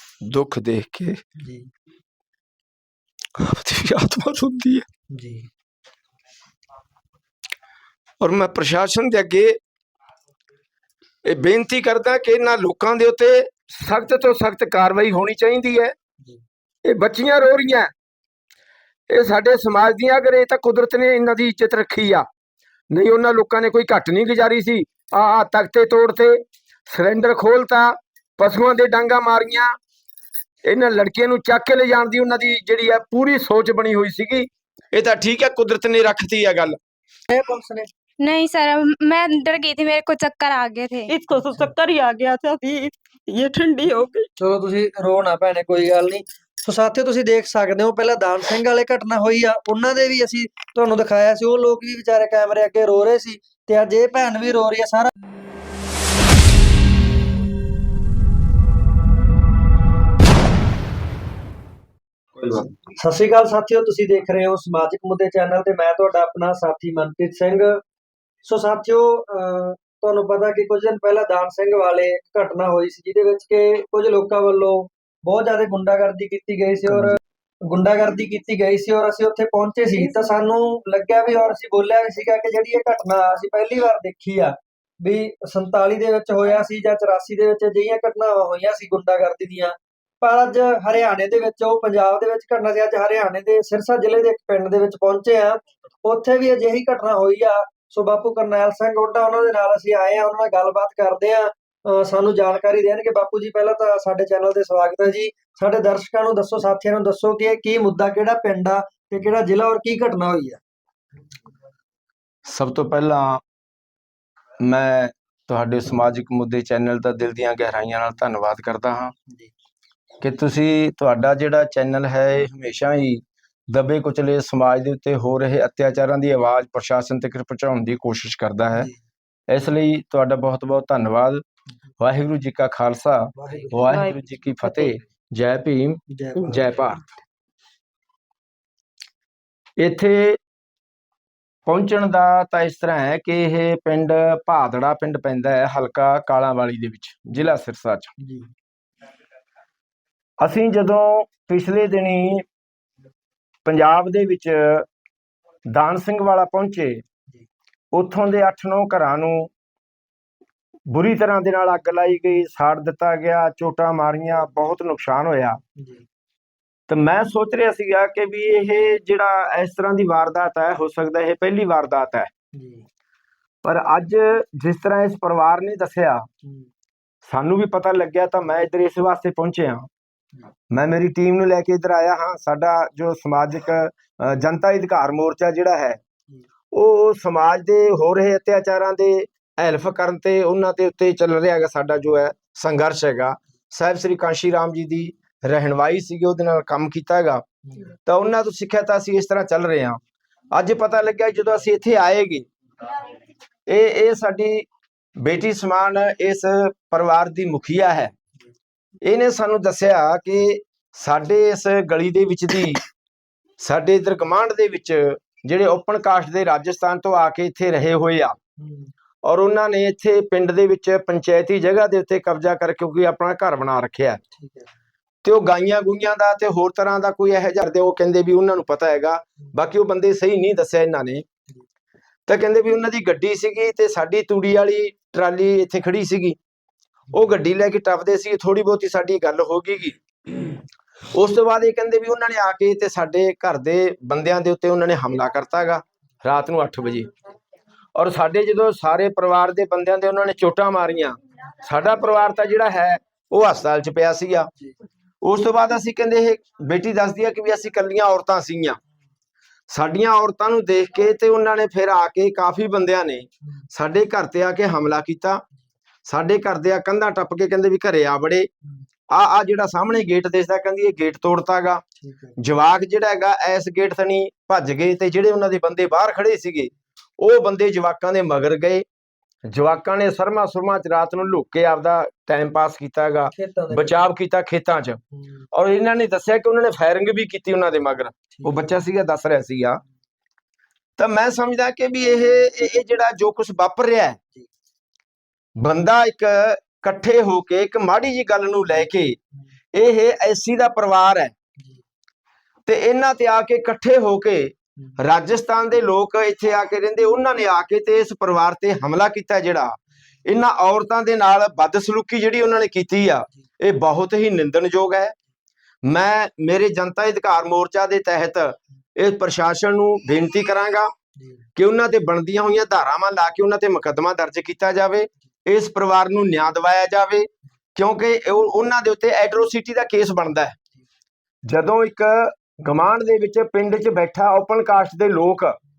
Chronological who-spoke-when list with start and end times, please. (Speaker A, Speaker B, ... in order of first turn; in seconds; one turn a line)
Speaker A: 0.2-1.2
Speaker A: 3.4-4.8
Speaker B: 5.1-5.5
Speaker A: 8.2-9.6
Speaker A: 11.2-15.9
Speaker A: 16.9-17.9
Speaker A: 19.1-22.2
Speaker A: 22.9-29.8
Speaker A: 30.6-36.8
Speaker B: 37.3-37.9
Speaker C: 38.2-41.1
Speaker D: 41.1-44.3
Speaker B: 44.4-55.1
Speaker B: 63.0-67.8
Speaker B: 68.4-110.6
Speaker A: 112.5-113.4
Speaker A: 114.6-119.1
Speaker A: 120.2-128.9
Speaker A: 129.5-131.4
Speaker A: 132.0-137.0
Speaker B: 133.4-133.9
Speaker D: 133.9-134.9
Speaker B: 136.1-136.6
Speaker A: 139.8-140.4
Speaker A: 141.7-148.1
Speaker B: 148.2-148.5
Speaker A: 150.4-152.4
Speaker A: 153.7-154.9
Speaker A: 155.7-157.0
Speaker A: 157.9-159.5
Speaker A: 160.9-165.6
Speaker A: 166.9-172.3
Speaker B: 172.5-172.8
Speaker A: 173.7-176.3
Speaker A: 177.2-179.9
Speaker A: 180.7-186.0
Speaker A: 186.7-197.4
Speaker A: 198.1-200.0
Speaker A: 200.5-202.5
Speaker A: 203.7-204.7
Speaker A: 205.2-208.1
Speaker A: 209.0-212.8
Speaker A: 213.6-218.4
Speaker B: 218.6-218.9
Speaker A: 219.2-224.2
Speaker B: 224.4-224.7
Speaker A: 225.2-231.2
Speaker A: 232.3-236.4
Speaker A: 237.1-240.5
Speaker A: 241.1-247.1
Speaker A: 248.0-254.5
Speaker A: 255.2-258.8
Speaker A: 259.7-265.4
Speaker A: 266.1-268.5
Speaker A: 269.1-271.8
Speaker B: 272.0-272.4
Speaker A: 272.4-278.9
Speaker A: 279.4-285.0
Speaker B: 283.3-283.9
Speaker A: 285.5-289.8
Speaker B: 288.3-288.8
Speaker A: 291.0-294.2
Speaker A: 295.6-299.2
Speaker A: 299.7-301.4
Speaker A: 302.7-315.1
Speaker A: 315.8-320.9
Speaker A: 321.6-330.6
Speaker A: 331.4-335.6